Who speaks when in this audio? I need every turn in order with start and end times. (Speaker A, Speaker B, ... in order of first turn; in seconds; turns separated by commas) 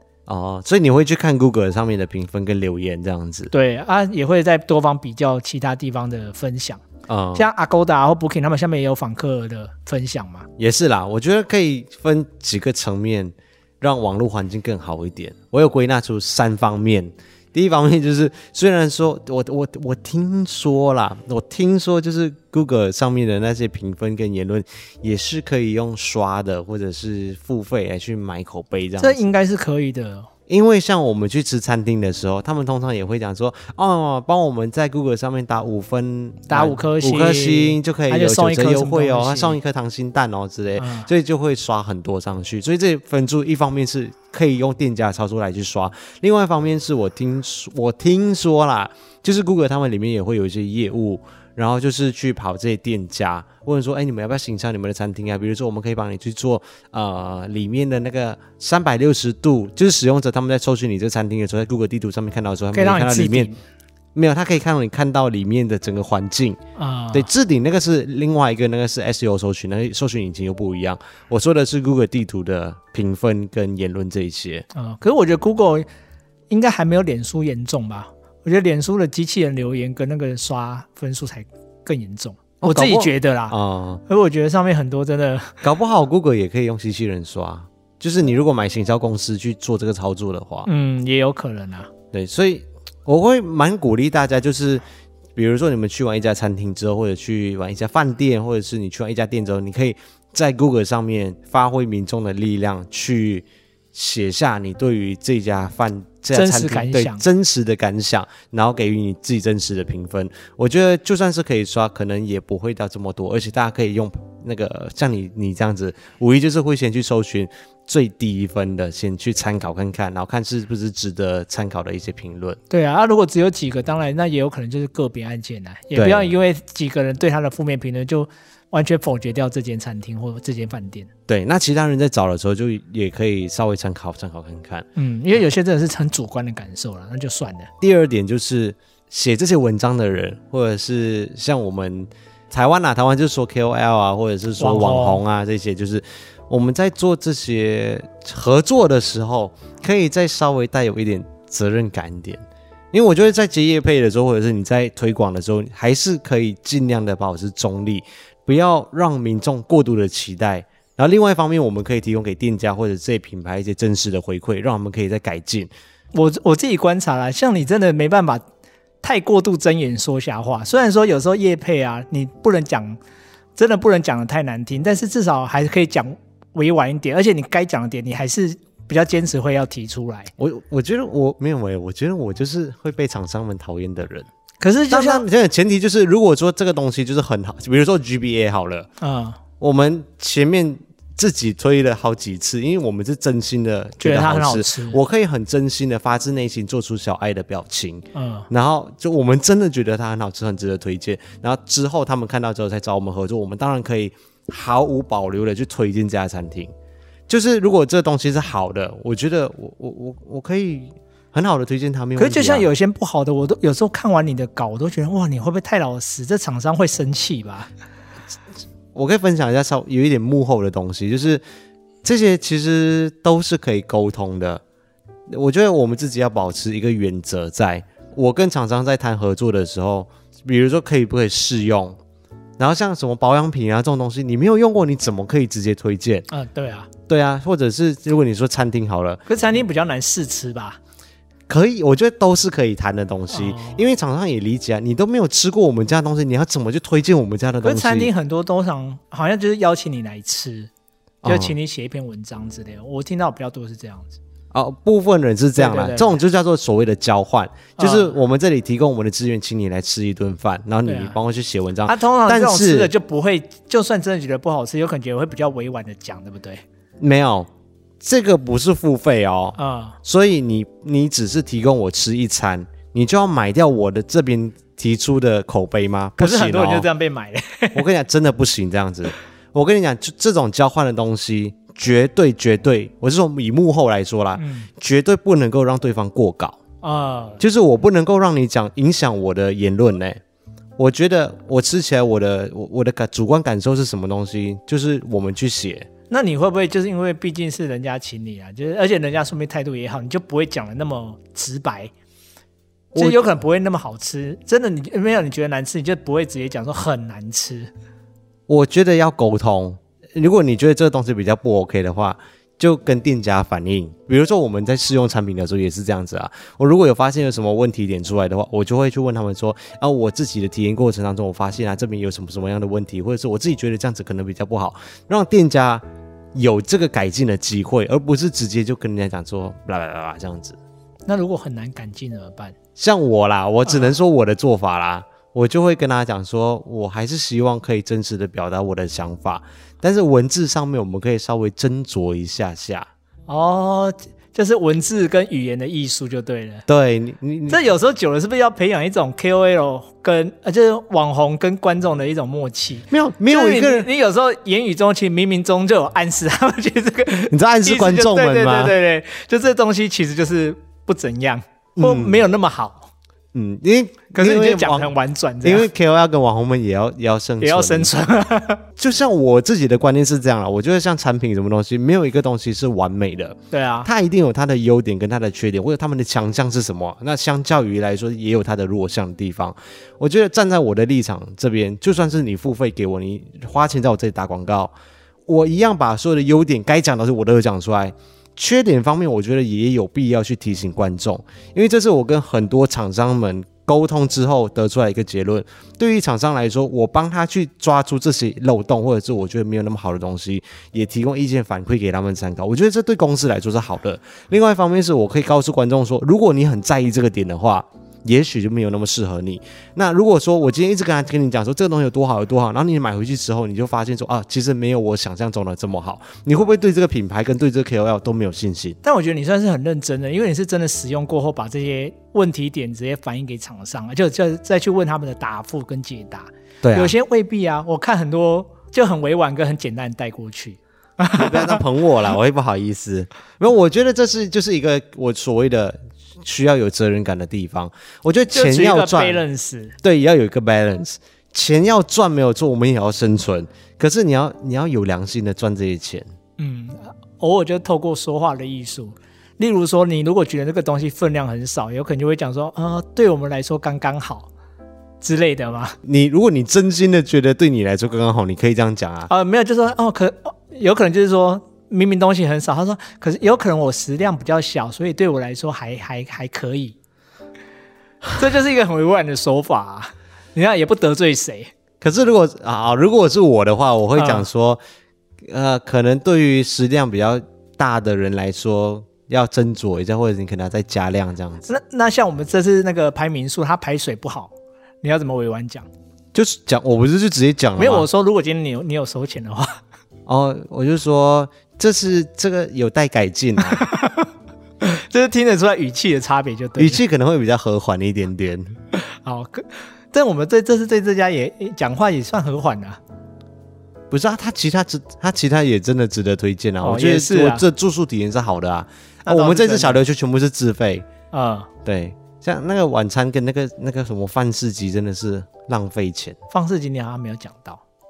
Speaker A: 0.3-3.5, Speaker B: 3.5-6.8, Speaker A: 7.1-7.5, Speaker B: 7.3-10.5, Speaker A: 10.6-29.2, Speaker B: 29.0-30.3, Speaker A: 30.5-63.5, Speaker B: 36.5-39.6, Speaker B: 40.8-41.1, Speaker B: 62.7-63.6, Speaker A: 64.1-66.6, Speaker B: 66.8-67.3, Speaker A: 67.1-74.7, Speaker B: 74.7-75.9, Speaker B: 76.5-83.6, Speaker A: 82.6-84.0, Speaker B: 84.1-85.6, Speaker A: 85.6-90.7, Speaker B: 90.7-91.9, Speaker A: 92.1-94.8, Speaker A: 95.4-122.6, Speaker B: 106.3-107.2, Speaker B: 122.7-131.1, Speaker A: 125.9-126.3, Speaker A: 131.3-134.9, Speaker B: 134.9-137.7, Speaker A: 137.8-152.4, Speaker B: 144.6-145.2, Speaker A: 152.9-165.7, Speaker B: 166.1-168.4, Speaker B: 169.0-173.0, Speaker B: 173.6-180.3, Speaker A: 180.4-184.3, Speaker B: 184.6-185.2, Speaker A: 184.9-188.9, Speaker B: 189.0-189.4, Speaker A: 189.6-206.7, Speaker B: 194.0-195.0, Speaker B: 198.1-198.5, Speaker A: 207.3-212.7, Speaker B: 212.2-217.7, Speaker A: 218.9-221.4, Speaker A: 222.0-224.6, Speaker A: 225.3-232.0, Speaker A: 232.6-236.3, Speaker B: 236.3-236.9, Speaker A: 237.1-239.2, Speaker B: 239.3-240.8, Speaker A: 241.5-248.1, Speaker B: 243.3-243.8, Speaker B: 247.6-250.7, Speaker A: 251.2-251.6, Speaker B: 251.2-254.2, Speaker A: 254.5-262.9, Speaker B: 255.6-256.2, Speaker B: 257.8-258.1, Speaker B: 260.9-261.2, Speaker B: 261.9-266.6, Speaker A: 267.0-267.5, Speaker A: 268.0-276.9, Speaker B: 269.6-270.0, Speaker B: 276.2-277.9, Speaker A: 277.7-286.6, Speaker B: 284.4-284.7, Speaker B: 286.8-287.4, Speaker A: 287.4-290.2, Speaker A: 290.8-295.9, Speaker B: 296.1-301.9, Speaker A: 302.9-303.3, Speaker B: 303.0-307.7, Speaker A: 308.5-325.8, Speaker A: 326.4-330.6, Speaker B: 331.1-332.5, Speaker A: 332.8-342.9, Speaker B: 333.6-333.9, Speaker B: 343.3-346.6, Speaker A: 346.7-347.6, Speaker B: 347.5-362.9, Speaker A: 352.9-353.9, Speaker A: 357.3-358.8, Speaker A: 361.8-362.2, Speaker A: 363.3-367.9, Speaker B: 364.1-365.7, Speaker B: 367.4-368.6, Speaker A: 368.8-384.7, Speaker B: 373.5-373.9, Speaker A: 385.3-418.8, Speaker B: 418.8-431.6, Speaker A: 426.6-426.9, Speaker A: 431.1-439.2, Speaker B: 438.3-439.8, Speaker A: 439.8-446.1, Speaker B: 446.4-454.3, Speaker B: 455.0-455.8, Speaker A: 455.8-459.1, Speaker B: 459.1-466.8, Speaker B: 468.2-471.5, Speaker A: 471.8-474.6, Speaker B: 474.0-474.2, Speaker A: 475.3-481.5, Speaker B: 481.5-485.7, Speaker A: 486.1-487.9, Speaker B: 487.6-489.6, Speaker A: 490.1-493.6, Speaker B: 493.4-496.8, Speaker A: 496.6-498.6, Speaker B: 498.7-502.8, Speaker A: 503.9-510.9, Speaker B: 506.6-507.4, Speaker B: 509.0-509.8, Speaker B: 511.1-511.5, Speaker A: 511.6-516.1, Speaker B: 516.3-517.6